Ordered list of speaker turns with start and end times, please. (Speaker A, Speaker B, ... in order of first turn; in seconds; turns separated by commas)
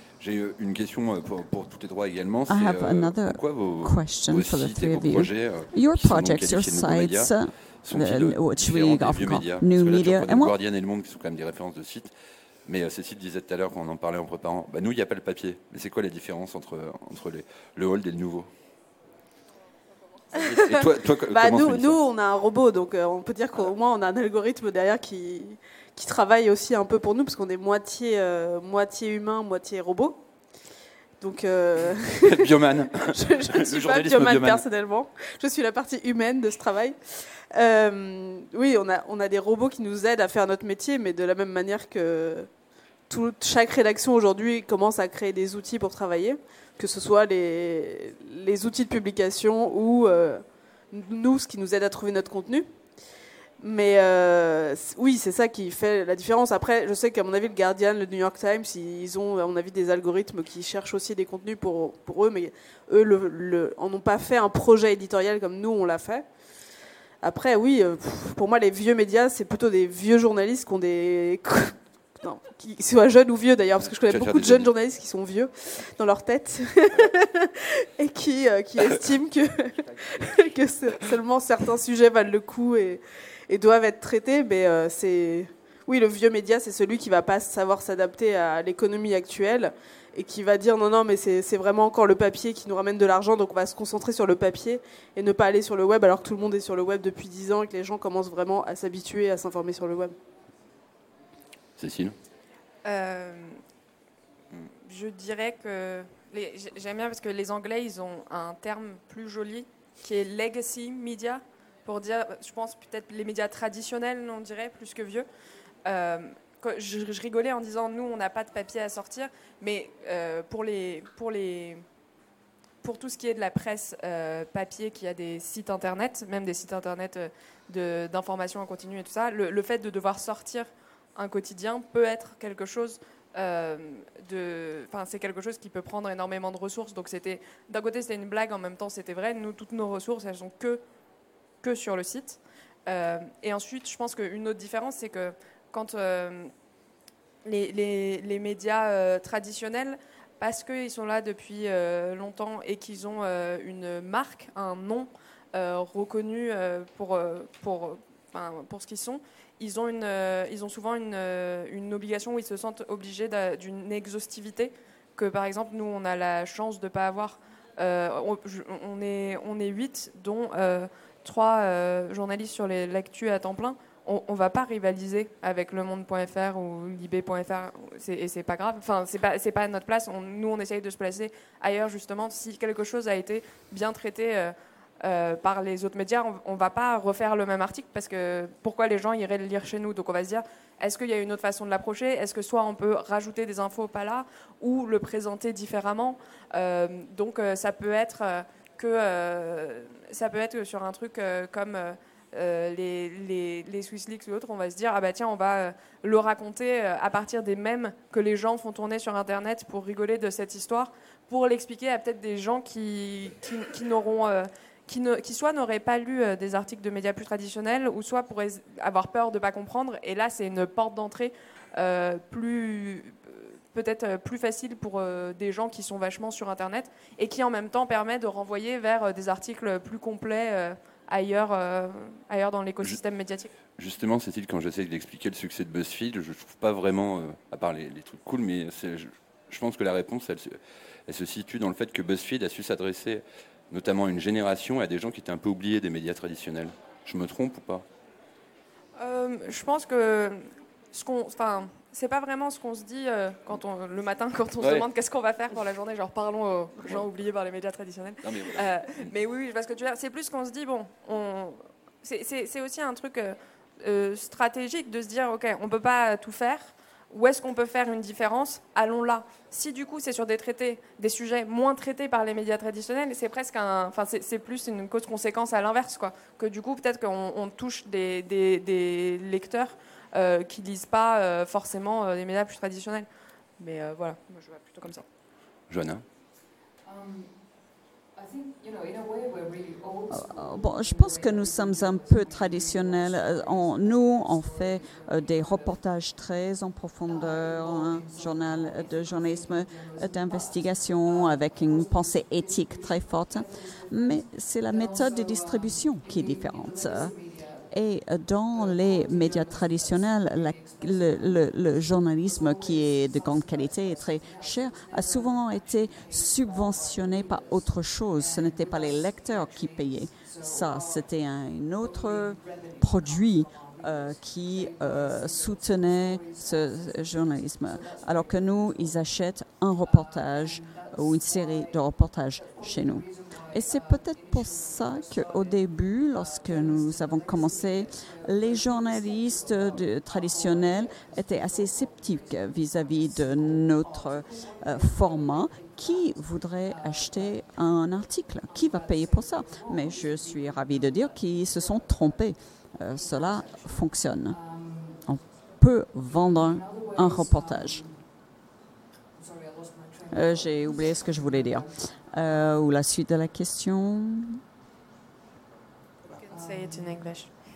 Speaker A: 0.2-12.1, Speaker B: 2.5-10.6, Speaker A: 12.7-18.5, Speaker A: 20.3-22.0, Speaker C: 20.4-30.2, Speaker C: 31.2-42.5, Speaker A: 32.2-34.6, Speaker C: 43.1-52.7, Speaker C: 53.6-66.2, Speaker C: 67.2-100.1, Speaker A: 73.8-74.7, Speaker A: 101.8-102.1, Speaker D: 102.8-103.6, Speaker D: 104.5-115.2, Speaker D: 115.8-121.8, Speaker D: 122.8-140.8, Speaker D: 141.6-146.5, Speaker D: 147.4-233.5, Speaker A: 233.8-247.8, Speaker D: 249.0-283.1, Speaker A: 254.6-254.9, Speaker A: 258.2-259.1, Speaker D: 283.6-285.0, Speaker A: 285.7-286.0, Speaker E: 286.8-287.5, Speaker E: 288.1-295.8, Speaker B: 290.1-307.1, Speaker E: 297.0-307.7, Speaker B: 307.7-354.4, Speaker E: 308.5-321.1, Speaker E: 321.8-329.1, Speaker E: 329.8-347.4, Speaker E: 348.4-352.1, Speaker E: 352.9-355.3, Speaker B: 355.1-357.8, Speaker E: 356.2-358.0, Speaker E: 359.1-361.7, Speaker B: 360.1-364.4, Speaker D: 366.2-367.3, Speaker E: 366.3-366.9